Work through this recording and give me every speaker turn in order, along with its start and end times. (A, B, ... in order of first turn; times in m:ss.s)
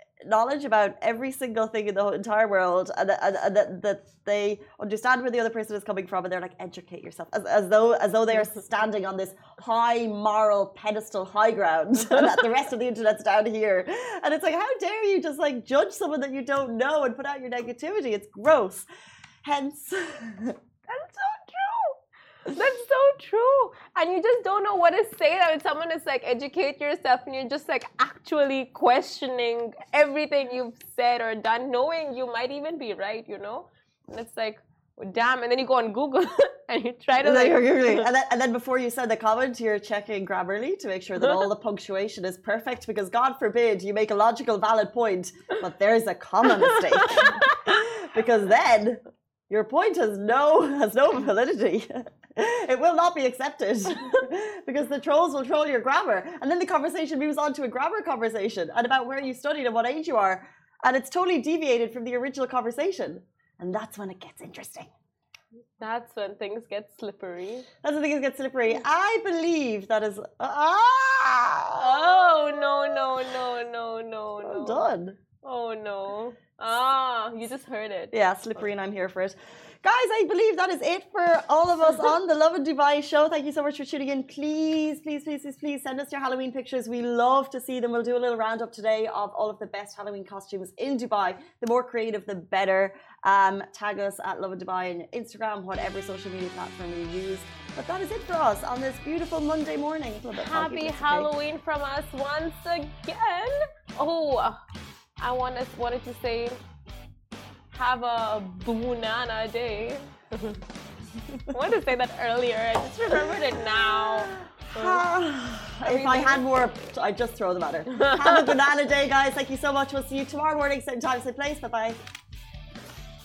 0:00.3-0:18.9 A
0:12.0-0:12.3 B
0:19.4-0:20.6 A
0:20.9-0:38.1 B
0:37.2-1:04.9 A
0:46.5-0:47.8 B
1:05.8-1:07.7 B
1:07.8-1:13.1 A
1:11.8-1:14.9 B
1:14.4-1:15.2 A
1:15.4-1:18.1 B
1:18.1-1:41.3 A
1:40.3-1:44.6 B
1:45.2-1:46.6 B
1:47.7-1:50.6 B
1:51.4-1:55.0 B
1:54.0-2:02.0 A
1:55.8-1:56.4 B
1:57.9-1:58.6 B